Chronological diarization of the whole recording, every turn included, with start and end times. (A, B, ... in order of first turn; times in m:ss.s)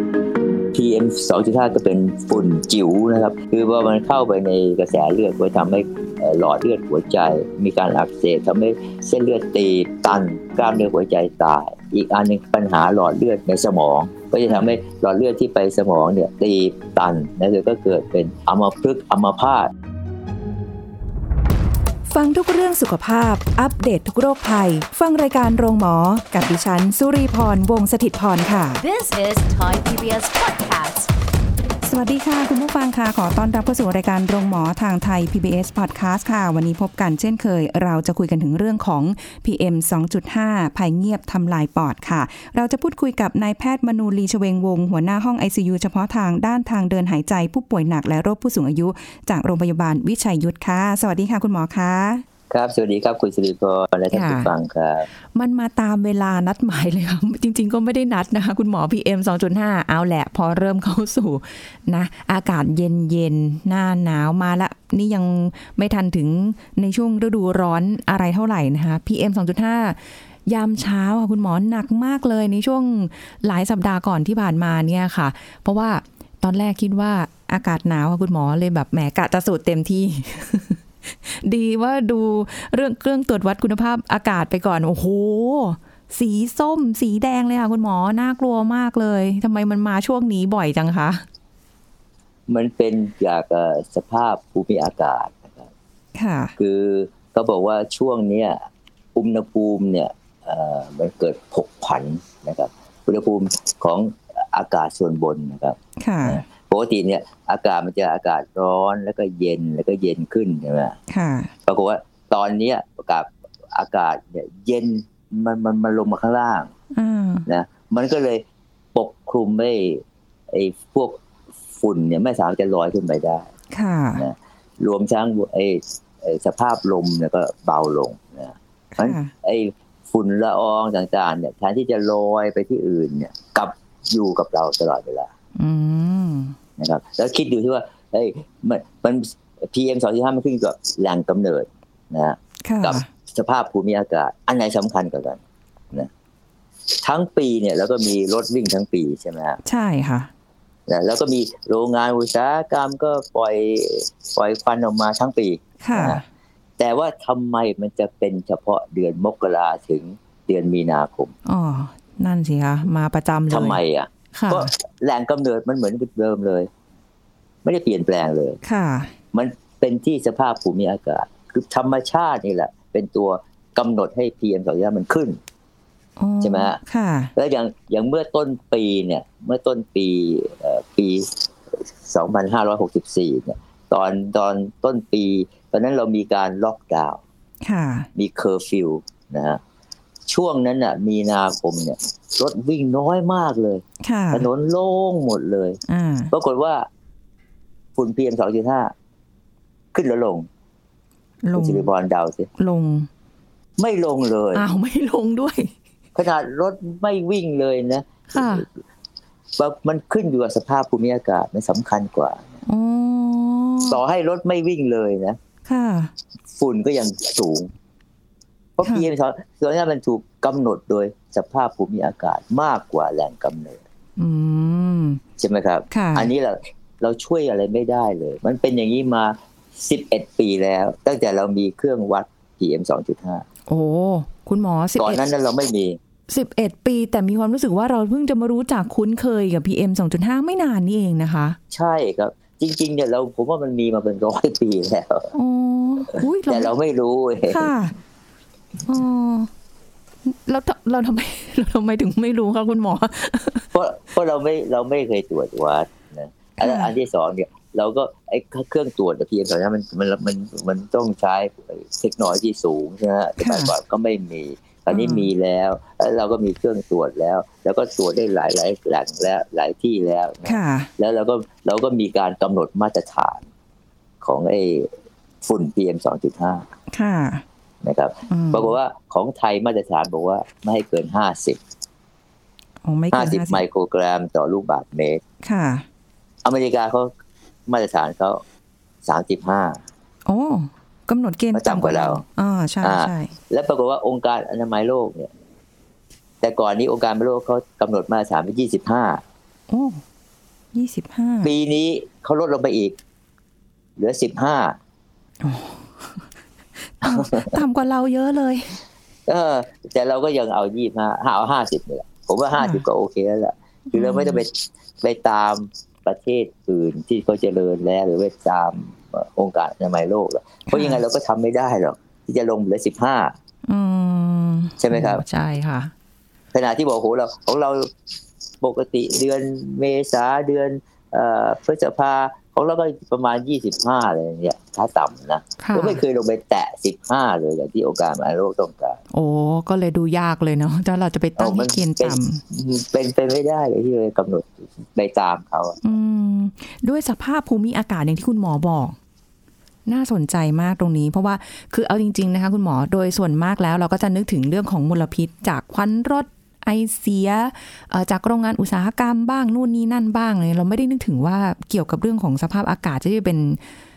0:00.7-0:19.7 A
0:22.1-0:28.8 B
0:28.8-0:31.1 C
0:31.8-0:52.2 B
0:52.5-0:55.1 A
0:54.1-0:54.5 B
0:55.3-1:31.2 B
1:32.5-1:35.7 A
1:36.2-1:36.5 B
1:36.6-1:38.6 A
1:39.1-1:51.0 A
1:46.0-1:46.4 B
1:51.1-1:51.5 B
1:51.6-1:56.7 A
1:56.9-1:57.5 B
1:57.4-2:01.2 A
2:01.8-2:03.5 A
2:03.7-2:04.2 B
2:04.2-2:15.3 A
2:08.9-2:09.3 B
2:15.6-2:16.6 B
2:16.8-2:25.4 A
2:22.6-2:23.0 B
2:27.0-2:29.6 A
2:29.6-2:30.3 B
2:30.9-2:36.2 A
2:35.8-2:36.2 B
2:36.8-2:41.3 A
2:41.4-2:43.8 B
2:43.5-2:46.7 A
2:44.3-2:44.7 B
2:47.6-2:48.6 A
2:48.6-2:49.1 B
2:49.3-2:55.4 A
2:56.2-2:57.3 B
2:56.4-2:56.8 A
2:57.4-3:01.4 A
3:02.0-3:07.2 A
3:07.6-3:08.1 B
3:08.2-3:09.6 A
3:10.3-3:15.8 A
3:14.0-3:14.5 B
3:15.9-3:16.3 B
3:16.3-3:16.9 A
3:18.0-3:18.9 A
3:19.9-3:20.5 A
3:21.4-3:21.9 B
3:21.5-3:22.5 A
3:22.6-3:23.1 B
3:23.8-3:24.6 A
3:24.5-3:25.7 B
3:26.2-3:28.8 A
3:28.3-3:28.6 B
3:29.6-3:32.5 A
3:32.6-3:34.0 B
3:33.8-3:35.4 A
3:35.6-3:36.1 B
3:36.6-3:37.7 A
3:38.8-3:43.8 A
3:44.2-3:45.2 B
3:45.4-3:53.4 A
3:45.9-3:46.3 B
3:53.7-3:55.2 B
3:55.0-3:56.0 A
3:56.3-4:01.6 B
4:01.7-4:05.3 A
4:05.3-4:06.7 B
4:06.5-4:07.7 A
4:07.5-4:07.9 B
4:08.8-4:09.5 B
4:10.2-4:13.7 B
4:13.7-4:33.4 A
4:16.6-4:16.9 B
4:23.4-4:23.7 B
4:24.9-4:25.3 B
4:30.4-4:30.9 B
4:34.2-4:34.9 A
4:35.4-4:36.6 A
4:36.9-4:37.4 B
4:37.8-4:41.6 A
4:38.3-4:38.7 B
4:42.8-4:43.6 B
4:43.1-4:45.2 A
4:45.4-4:45.8 B
4:46.4-4:47.1 A
4:47.7-4:48.4 A
4:49.0-4:49.8 A
4:50.2-4:53.3 B
4:51.5-4:52.2 A
4:52.8-4:55.3 A
4:56.4-4:59.2 A
4:59.7-5:00.0 B
5:00.7-5:01.5 B
5:01.4-5:03.0 A
5:04.0-5:04.8 A
5:05.4-5:06.2 B
5:06.8-5:08.8 B
5:07.0-5:07.6 A
5:09.3-5:23.3 A
5:12.6-5:12.8 B
5:13.9-5:14.4 B
5:20.7-5:21.0 B
5:23.7-5:25.9 B
5:24.8-5:25.2 A
5:26.5-5:27.9 A
5:28.6-5:39.0 A
5:35.6-5:36.0 B
5:39.1-5:42.4 B
5:41.4-5:45.8 A
5:45.8-5:49.0 B
5:49.8-6:03.6 B